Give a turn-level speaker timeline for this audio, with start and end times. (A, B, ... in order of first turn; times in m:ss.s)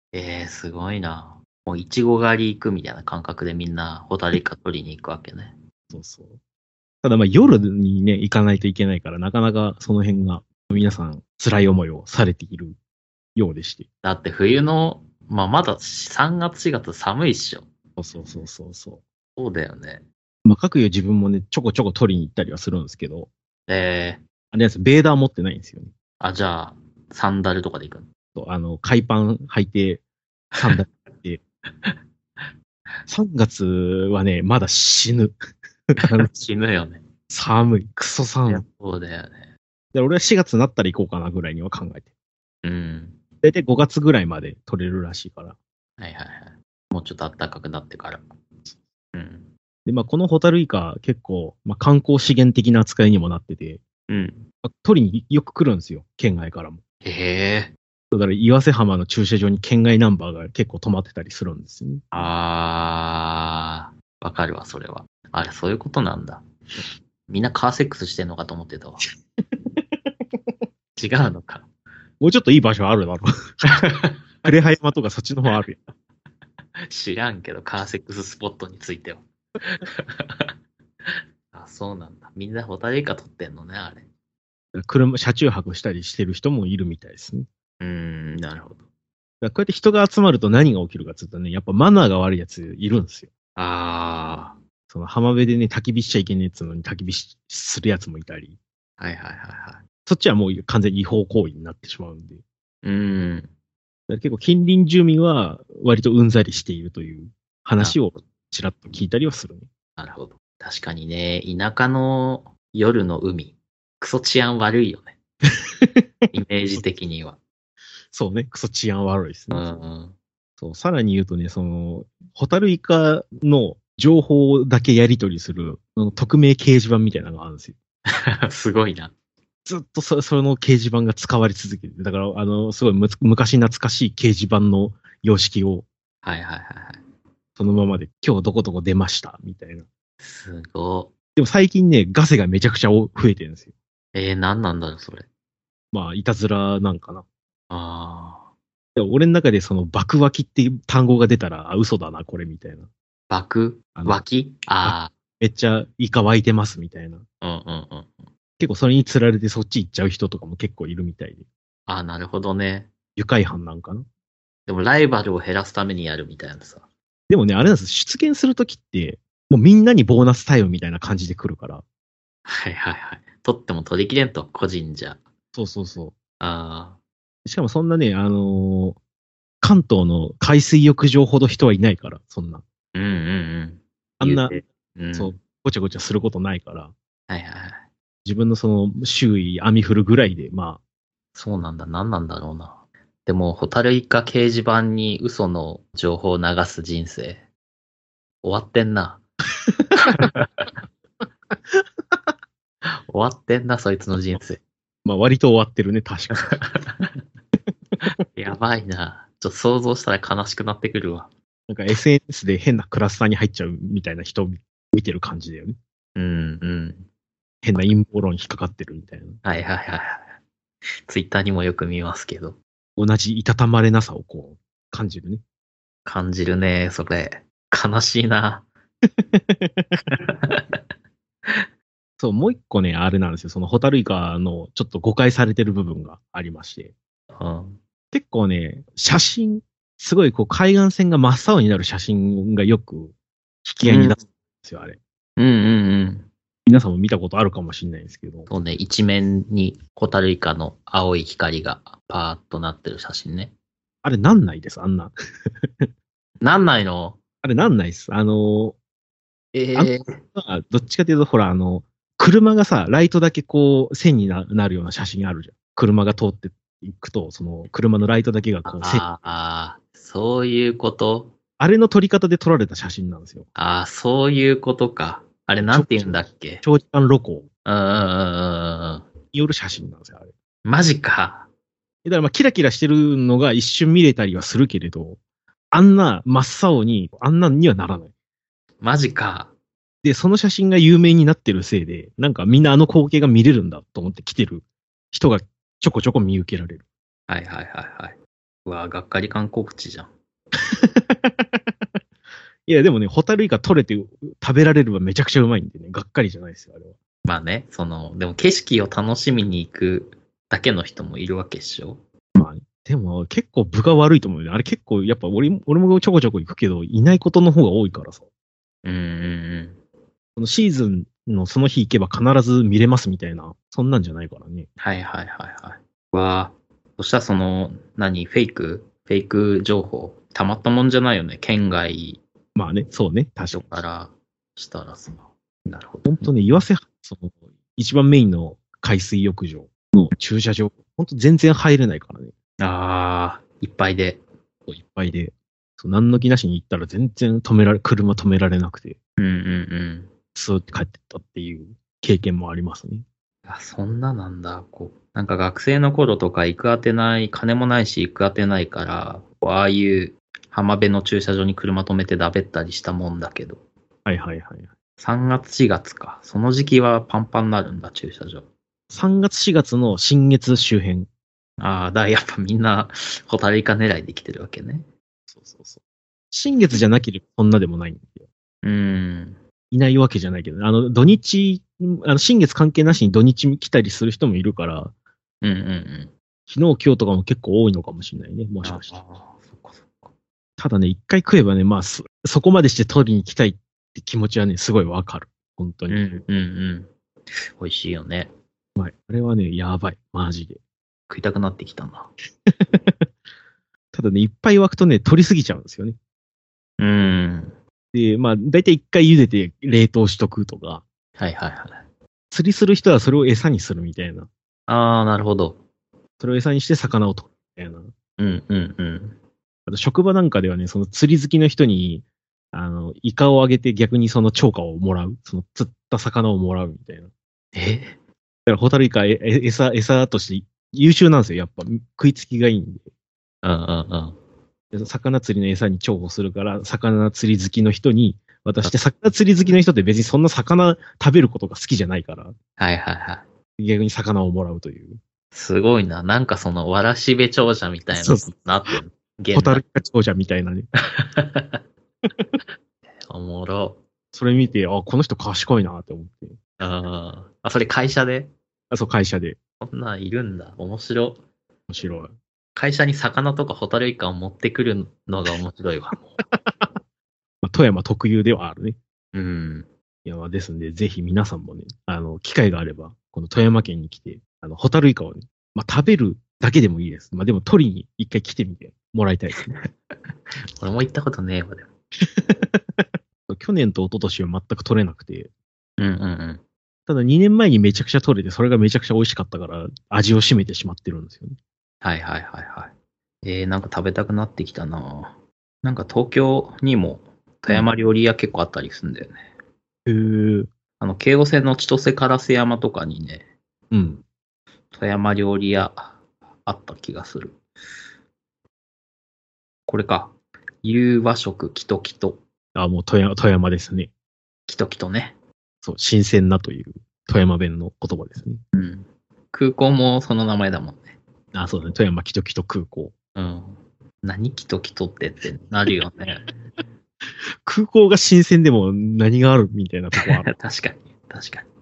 0:00.1-0:05.6 A
0:05.9-0:06.4 B
0:07.0-0:12.8 B
0:13.4-0:13.9 B
0:14.0-0:17.7 A
0:18.0-0:19.0 B
0:19.4-0:20.0 A
0:20.4-0:23.3 B
0:23.7-0:24.2 A
0:24.5-0:25.9 B
0:26.2-0:28.1 A
0:28.4-0:30.0 B
0:30.5-0:30.8 A
0:30.6-0:31.4 B
0:31.8-0:32.5 A
0:33.1-0:35.4 B
0:35.9-0:36.3 B
0:36.0-0:37.0 A
0:37.3-0:38.6 B
0:38.5-0:39.5 A
0:39.9-0:42.1 B
0:42.6-0:43.2 A
0:43.4-0:45.6 B
0:46.0-0:48.3 A
0:49.1-0:49.5 A
0:49.9-0:53.8 B
0:54.1-0:54.4 A
0:54.6-0:56.8 B
0:57.0-0:57.7 A
0:58.1-1:02.0 B
1:02.1-1:06.4 A
1:07.3-1:09.0 A
1:09.5-1:10.0 B
1:11.0-1:11.7 A
1:12.2-1:13.3 B
1:13.7-1:14.2 A
1:14.4-1:15.8 B
1:16.9-1:20.5 A
1:21.1-1:24.1 A
1:24.7-1:27.5 B
1:27.8-1:28.8 A
1:29.4-1:33.3 B
1:33.6-1:34.6 A
1:34.9-1:38.6 B
1:39.0-1:39.8 A
1:40.1-1:42.4 B
1:42.8-1:43.5 A
1:44.1-1:49.7 B
1:50.0-1:55.2 A
1:55.8-1:56.8 B
1:56.3-1:57.4 A
1:58.1-1:59.8 B
1:59.5-2:00.2 A
2:00.6-2:07.8 B
2:08.1-2:09.1 A
2:09.7-2:15.9 B
2:16.2-2:17.0 A
2:17.6-2:19.9 B
2:20.2-2:21.1 A
2:21.4-2:23.7 B
2:24.1-2:25.3 A
2:25.9-2:27.2 B
2:27.7-2:28.5 A
2:29.0-2:32.9 B
2:33.3-2:35.1 A
2:34.0-2:34.2 B
2:34.8-2:37.2 B
2:37.4-2:38.3 A
2:38.6-2:41.5 B
2:41.9-2:42.9 A
2:43.2-2:44.1 B
2:44.7-2:46.9 A
2:47.3-2:51.8 B
2:52.5-2:55.2 A
2:55.6-2:56.2 B
2:56.4-2:57.0 A
2:57.4-2:59.0 B
2:59.6-3:02.6 B
3:03.0-3:05.4 A
3:04.2-3:04.6 B
3:05.2-3:06.9 B
3:07.3-3:07.8 A
3:08.2-3:10.8 B
3:11.4-3:17.4 A
3:18.4-3:19.2 A
3:19.7-3:20.3 B
3:20.0-3:20.7 A
3:21.7-3:22.2 B
3:23.1-3:24.6 A
3:25.0-3:26.6 B
3:26.3-3:27.2 A
3:28.0-3:31.3 A
3:31.7-3:35.8 B
3:36.2-3:37.0 A
3:37.6-3:39.4 B
3:39.4-3:40.3 A
3:41.1-3:42.6 A
3:43.0-3:45.4 B
3:46.0-3:48.7 A
3:49.2-3:50.0 B
3:50.0-3:50.8 A
3:52.2-3:56.9 B
3:57.3-3:57.8 A
3:58.1-4:05.0 B
4:03.8-4:04.2 A
4:05.4-4:06.3 A
4:06.7-4:08.5 B
4:08.5-4:13.5 A
4:14.0-4:15.9 B
4:16.4-4:17.2 A
4:17.4-4:18.8 B
4:19.5-4:20.2 A
4:19.7-4:29.1 B
4:28.7-4:31.3 A
4:31.6-4:33.5 B
4:33.6-4:36.6 A
4:35.6-4:37.5 B
4:37.7-4:39.1 A
4:39.3-4:40.3 B
4:40.6-4:41.5 A
4:42.0-4:45.2 B
4:45.7-4:48.1 B
4:48.8-4:49.5 A
4:50.0-4:56.8 B
4:57.3-5:00.1 A
5:00.6-5:01.9 B
5:02.7-5:07.0 B
5:07.2-5:12.0 A
5:12.4-5:18.3 B
5:18.8-5:19.8 A
5:20.4-5:24.7 B
5:24.8-5:32.2 A
5:32.6-5:33.8 B
5:33.5-5:36.3 A
5:36.0-5:42.3 B
5:42.6-5:44.2 A
5:44.7-5:49.0 B
5:49.2-5:50.1 A
5:50.4-5:53.0 B
5:53.5-6:03.6 A
6:04.1-6:04.7 B
6:05.0-6:08.5 A
6:08.9-6:11.1 B
6:11.6-6:14.9 A
6:15.3-6:15.8 B
6:16.3-6:18.2 B
6:18.6-6:19.4 A
6:19.7-6:24.9 B
6:25.4-6:26.1 A
6:26.5-6:29.0 B
6:28.6-6:30.1 A
6:30.6-6:36.2 B
6:35.9-6:36.9 A
6:37.6-6:38.3 A
6:38.8-6:40.6 B
6:41.1-6:42.1 A
6:42.5-6:43.1 B
6:43.9-6:46.0 B
6:46.8-6:47.6 A
6:47.9-6:50.8 B
6:51.2-6:51.8 A
6:52.3-6:54.3 B
6:54.7-6:55.6 A
6:56.2-6:57.9 B
6:58.2-6:59.2 A
6:59.7-7:07.1 B
7:07.5-7:08.0 A
7:08.5-7:12.9 B
7:13.4-7:14.2 A
7:14.7-7:22.4 B
7:22.6-7:23.3 A
7:23.6-7:25.0 B
7:25.3-7:29.6 A
7:27.9-7:28.7 B
7:29.3-7:30.7 B
7:30.8-7:31.6 A
7:33.1-7:33.8 A
7:34.1-7:36.4 B
7:36.6-7:38.3 A
7:38.7-7:39.4 B
7:39.6-7:41.2 A
7:41.7-7:42.1 B
7:42.6-7:46.1 A
7:46.2-7:46.7 B
7:47.4-7:48.8 B
7:49.1-7:49.7 A
7:50.0-7:59.4 B
7:59.3-7:59.7 A
8:00.6-8:01.7 A
8:02.0-8:05.3 B
8:05.8-8:06.4 A
8:06.9-8:11.4 B
8:11.8-8:19.3 A
8:19.9-8:20.5 B
8:20.8-8:23.3 A
8:23.7-8:24.0 B
8:24.7-8:27.4 A
8:29.7-8:32.2 A
8:32.6-8:33.9 B
8:34.5-8:35.2 A
8:35.6-8:38.4 B
8:38.5-8:41.0 A
8:41.3-8:42.9 B
8:43.2-8:46.3 A
8:47.4-8:50.3 B
8:49.9-8:51.5 A